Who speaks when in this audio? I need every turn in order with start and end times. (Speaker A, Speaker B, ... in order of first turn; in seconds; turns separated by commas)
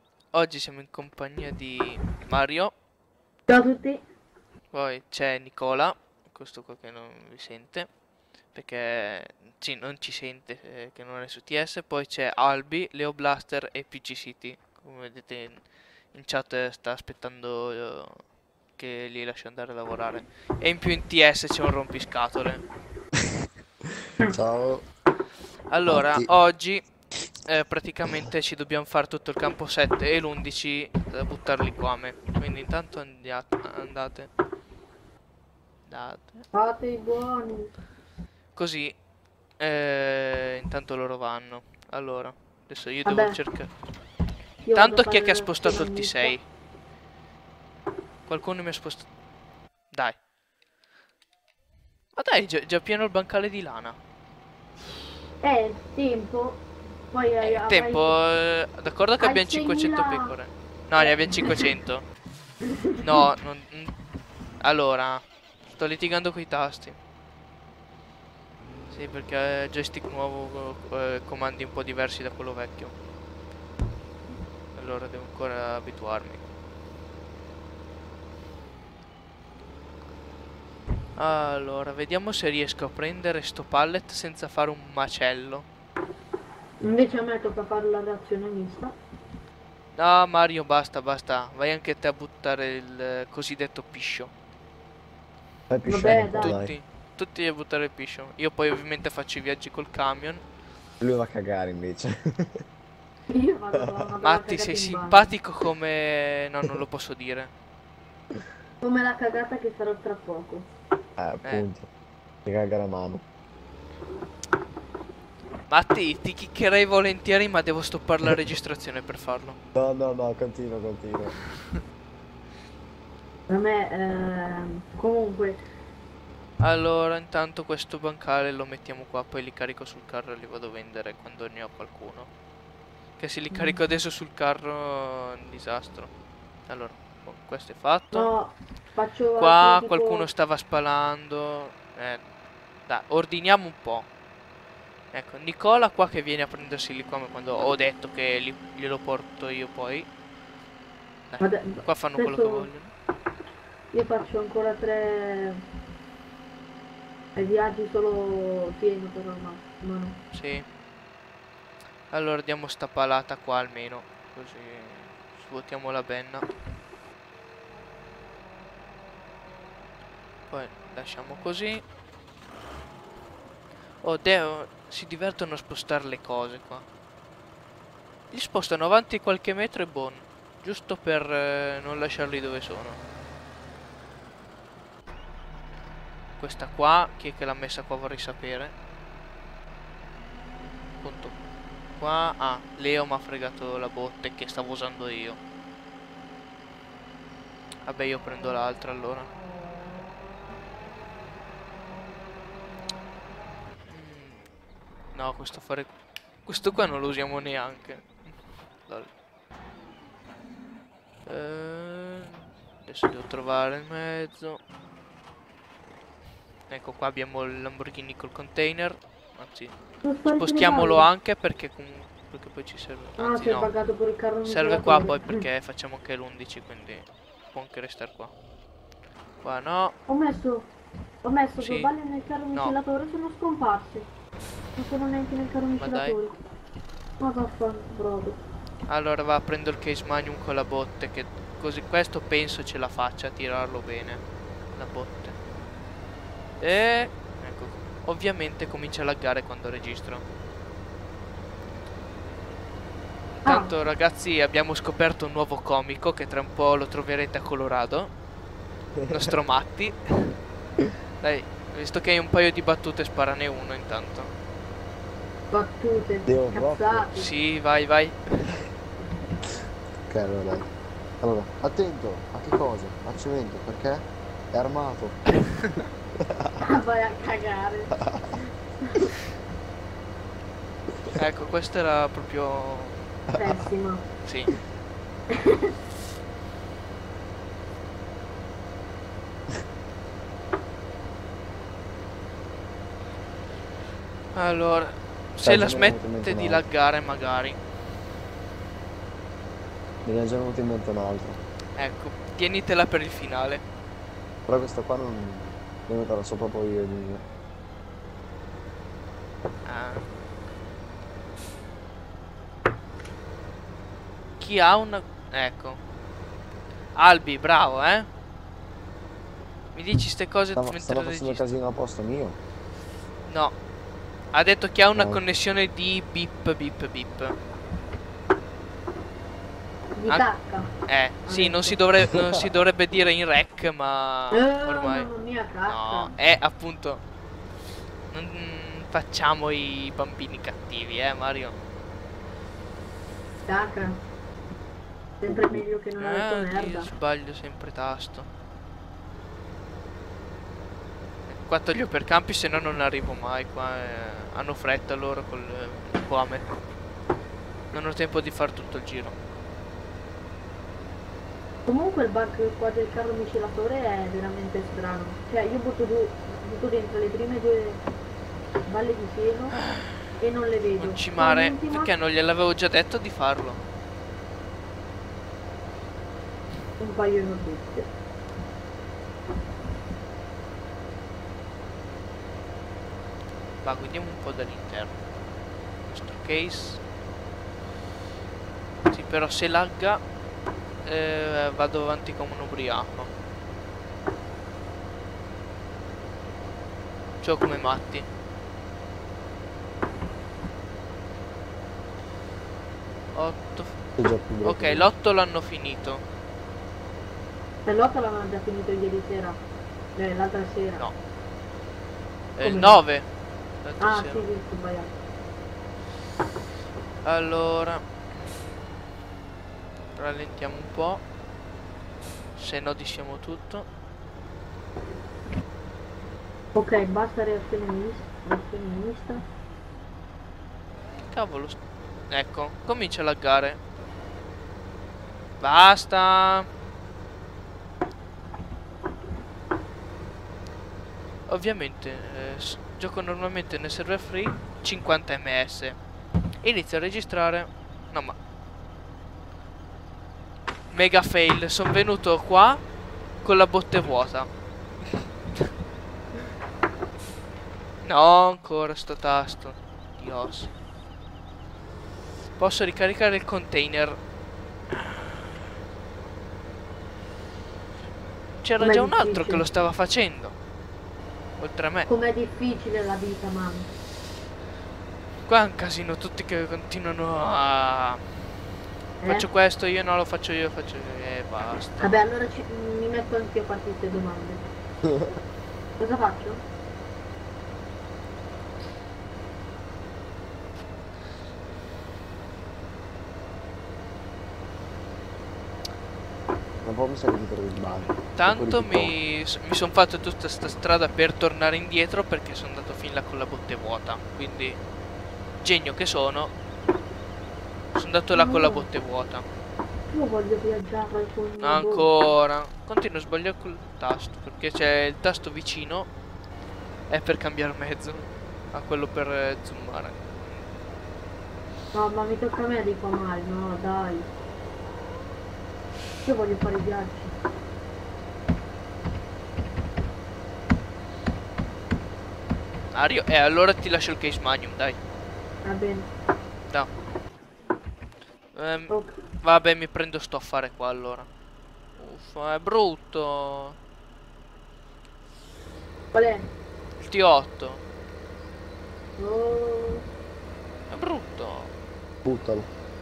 Speaker A: 0.3-2.7, Speaker B: 3.5-4.0, Speaker A: 4.7-7.9, Speaker A: 8.5-18.2, Speaker A: 18.8-22.6, Speaker C: 24.2-24.9, Speaker A: 25.7-26.8, Speaker C: 25.9-26.3, Speaker A: 27.4-34.3, Speaker A: 35.9-36.5, Speaker B: 36.5-37.7, Speaker A: 38.5-39.0, Speaker A: 39.6-43.7, Speaker B: 43.0-43.4, Speaker B: 44.6-46.4, Speaker A: 44.7-46.4, Speaker A: 48.3-49.1, Speaker A: 52.1-54.0, Speaker B: 55.4-58.1, Speaker A: 57.4-62.0, Speaker B: 59.2-60.4, Speaker B: 61.0-61.7, Speaker B: 62.7-63.2, Speaker A: 63.0-63.9, Speaker A: 64.6-67.0, Speaker A: 68.9-72.9, Speaker A: 74.7-76.4, Speaker A: 81.2-85.7, Speaker B: 86.8-88.9, Speaker A: 89.9-94.3, Speaker C: 95.7-96.7, Speaker B: 95.8-96.6, Speaker A: 96.0-100.4, Speaker C: 101.0-102.6, Speaker B: 103.3-105.3, Speaker C: 103.7-104.0, Speaker A: 104.2-107.5, Speaker B: 108.8-110.7, Speaker C: 111.2-111.9, Speaker C: 112.5-113.2, Speaker A: 115.7-119.5, Speaker C: 119.7-121.3, Speaker B: 123.5-125.6, Speaker A: 126.6-132.3, Speaker A: 133.2-136.1, Speaker B: 133.5-133.8, Speaker A: 136.7-138.3, Speaker B: 138.1-140.3, Speaker A: 139.4-142.2, Speaker A: 142.8-144.1, Speaker A: 145.1-150.1, Speaker A: 151.3-152.9, Speaker B: 151.4-152.7, Speaker B: 153.9-155.6, Speaker B: 157.3-160.2, Speaker A: 160.3-160.7, Speaker A: 162.1-166.4, Speaker A: 170.5-171.8, Speaker A: 174.0-176.8, Speaker A: 178.3-183.0, Speaker A: 186.4-188.7, Speaker A: 191.0-191.3, Speaker A: 191.9-195.4, Speaker A: 197.8-199.3, Speaker A: 203.9-204.4, Speaker A: 205.1-208.1, Speaker A: 208.8-209.1, Speaker A: 211.2-214.6, Speaker A: 216.7-219.7, Speaker B: 220.0-221.1, Speaker A: 220.3-223.7, Speaker B: 223.2-225.4, Speaker A: 224.4-228.3, Speaker A: 229.4-229.9, Speaker B: 230.1-230.7, Speaker B: 231.2-234.1, Speaker A: 231.6-231.9, Speaker B: 234.7-236.3, Speaker A: 235.8-236.2, Speaker B: 237.2-238.4, Speaker A: 238.9-244.2, Speaker A: 244.7-245.3, Speaker A: 246.6-250.2, Speaker A: 253.4-258.1, Speaker B: 253.4-253.7, Speaker C: 259.0-259.3, Speaker A: 259.1-260.4, Speaker A: 261.2-264.3, Speaker B: 265.5-267.3, Speaker C: 266.2-267.1, Speaker A: 267.1-268.5, Speaker C: 270.1-270.7, Speaker C: 271.2-275.4, Speaker C: 276.2-276.5, Speaker B: 276.6-278.1, Speaker B: 278.8-279.1, Speaker A: 281.1-283.2, Speaker B: 283.3-284.1, Speaker A: 284.2-284.5, Speaker B: 285.3-285.7, Speaker A: 294.3-297.6, Speaker C: 295.4-296.6, Speaker C: 300.0-301.4, Speaker A: 301.8-303.6, Speaker C: 304.5-307.2, Speaker A: 309.6-310.1, Speaker A: 314.4-315.8, Speaker A: 316.9-318.1, Speaker A: 319.7-321.4, Speaker C: 320.5-322.4, Speaker A: 323.3-323.5, Speaker A: 324.3-327.4, Speaker C: 324.9-325.2, Speaker B: 329.9-331.8, Speaker A: 330.8-335.1, Speaker B: 334.3-336.1, Speaker A: 335.6-337.0, Speaker A: 338.1-341.6, Speaker B: 343.4-344.0, Speaker B: 345.2-346.9, Speaker C: 345.3-345.6, Speaker A: 346.0-348.3, Speaker A: 351.3-356.5, Speaker A: 357.7-359.1, Speaker B: 361.7-367.8, Speaker B: 368.6-369.6, Speaker A: 369.6-370.2, Speaker B: 370.2-371.9, Speaker A: 370.8-373.6, Speaker B: 376.8-377.9, Speaker A: 383.6-385.0, Speaker A: 385.9-386.8, Speaker A: 388.9-390.0, Speaker A: 390.8-393.1, Speaker A: 397.2-398.1, Speaker A: 403.1-403.9, Speaker C: 404.0-404.9, Speaker A: 404.4-406.0, Speaker B: 407.6-409.4, Speaker B: 409.9-410.9, Speaker A: 412.4-413.1, Speaker B: 412.4-412.8, Speaker A: 413.6-414.3, Speaker B: 413.8-414.9, Speaker A: 417.0-417.8, Speaker A: 419.9-421.0, Speaker A: 422.4-423.6, Speaker B: 426.5-429.2, Speaker A: 431.1-431.6, Speaker A: 432.1-433.6, Speaker A: 435.4-436.5, Speaker A: 441.3-445.8, Speaker A: 446.4-448.1, Speaker A: 450.7-452.6, Speaker A: 453.2-454.3, Speaker A: 457.8-460.5, Speaker A: 462.4-464.0, Speaker A: 464.7-465.2, Speaker A: 468.4-470.4, Speaker B: 468.6-469.5, Speaker A: 471.4-471.9, Speaker B: 471.9-473.7, Speaker A: 475.2-478.0, Speaker B: 479.0-479.3, Speaker A: 479.0-482.0, Speaker B: 481.8-484.5, Speaker B: 485.8-486.4, Speaker C: 496.6-498.9, Speaker A: 497.7-504.6, Speaker A: 505.4-506.3, Speaker A: 507.7-509.2, Speaker B: 508.1-508.7, Speaker B: 509.9-511.9, Speaker A: 511.4-515.9, Speaker A: 516.9-520.4, Speaker B: 521.7-524.1, Speaker B: 526.0-527.1, Speaker A: 532.7-534.8, Speaker B: 535.4-535.9, Speaker A: 538.3-541.1, Speaker B: 538.7-539.0, Speaker A: 541.8-543.6, Speaker B: 545.9-546.3, Speaker A: 546.8-547.6, Speaker B: 549.0-549.9, Speaker A: 550.7-551.5, Speaker C: 552.0-552.5